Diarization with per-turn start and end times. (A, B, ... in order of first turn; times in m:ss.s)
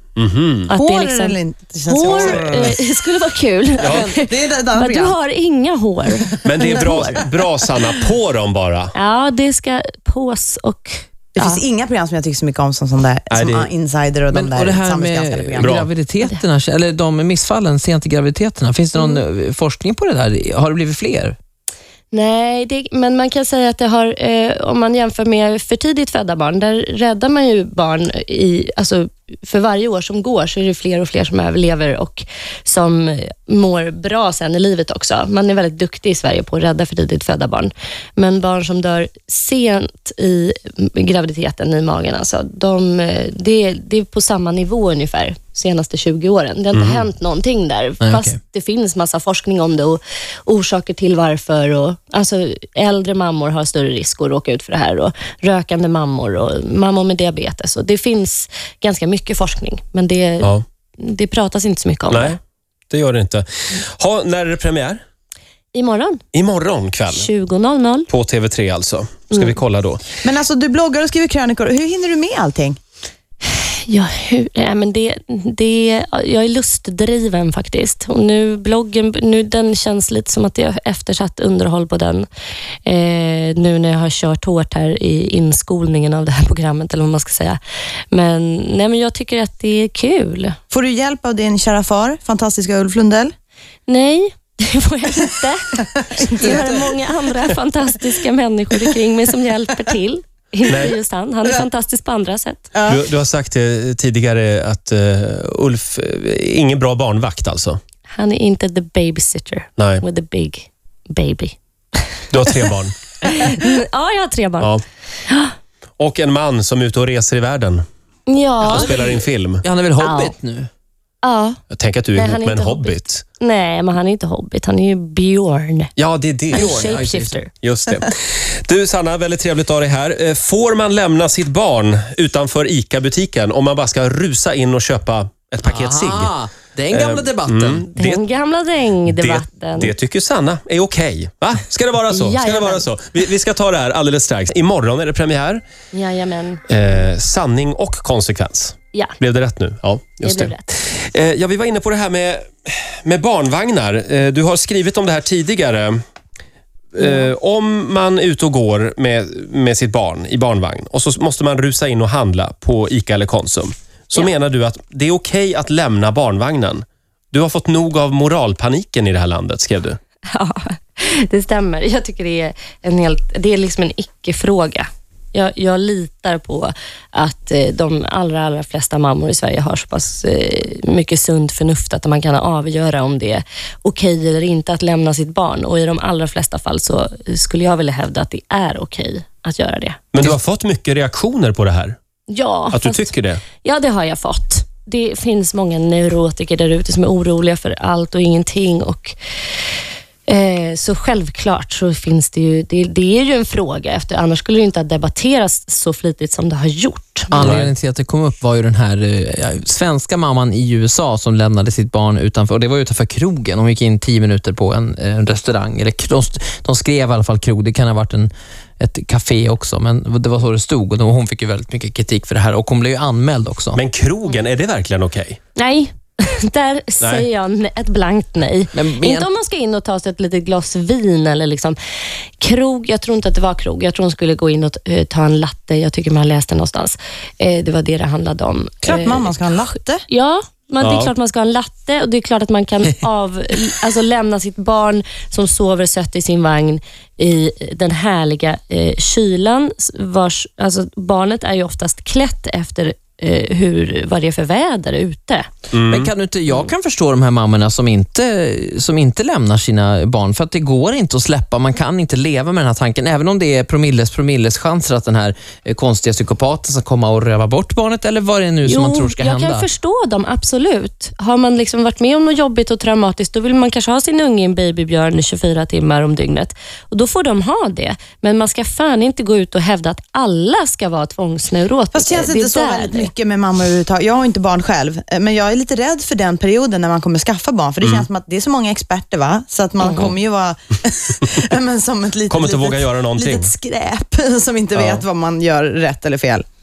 0:00.2-0:00.7 A
0:00.7-0:07.2 B
0:00.7-0:02.8 C
0:03.8-0:05.2 C
0:03.8-0:04.1 A
0:06.4-0:08.9 A
0:08.9-0:11.6 B
0:11.4-0:15.8 C
0:13.3-0:13.7 A
0:14.3-0:21.4 D
0:15.6-0:15.9 A
0:22.1-1:02.4 B
0:46.7-0:47.0 A
0:48.0-0:48.4 D
1:02.1-1:02.4 A
1:02.9-1:05.0 A
1:05.7-1:06.2 B
1:06.3-1:07.3 A
1:07.1-1:08.1 B
1:08.1-1:10.0 A
1:09.3-1:09.6 B
1:10.2-1:12.8 C
1:13.4-1:22.3 B
1:22.8-1:27.6 B
1:28.1-1:30.6 B
1:30.7-1:33.3 C
1:33.9-1:42.7 B
1:36.2-1:36.9 C
1:40.7-1:41.0 A
1:42.7-1:43.0 C
1:42.9-1:47.8 A
1:48.1-1:52.0 B
1:49.8-1:50.0 A
1:52.3-1:52.9 A
1:53.2-1:54.7 B
1:56.0-1:57.8 A
1:58.3-1:59.0 B
1:58.7-1:59.6 A
1:58.7-2:00.7 D
2:00.0-2:00.3 B
2:01.2-2:01.6 B
2:01.7-2:03.2 A
2:02.2-2:05.9 B
2:06.0-2:06.8 A
2:06.5-2:07.5 B
2:06.5-2:07.4 D
2:07.6-2:16.3 A
2:15.6-2:17.9 D
2:16.9-2:18.2 A
2:17.9-2:20.0 B
2:19.1-2:25.6 A
2:22.1-2:22.9 B
2:25.9-2:26.6 B
2:26.7-2:36.0 A
2:30.2-2:30.6 B
2:36.9-2:50.0 A
2:37.0-2:37.3 B
2:50.3-3:10.0 B
3:10.1-3:12.0 A
3:12.3-3:13.1 B
3:12.7-3:13.4 A
3:13.6-3:19.2 B
3:20.3-3:27.4 B
3:27.3-3:43.8 D
3:27.4-3:27.7 A
3:43.7-3:45.4 A
3:45.6-3:51.8 B
3:48.7-3:49.3 D
3:52.4-3:59.3 B
3:58.8-4:00.0 C
4:00.1-4:15.5 B
4:00.8-4:01.1 A
4:15.7-4:16.1 A
4:15.9-4:29.7 D
4:28.6-4:43.1 B
4:41.9-4:56.4 C
4:47.8-4:48.1 A
4:49.8-4:50.1 B
4:52.3-4:53.5 A
4:54.8-4:55.0 A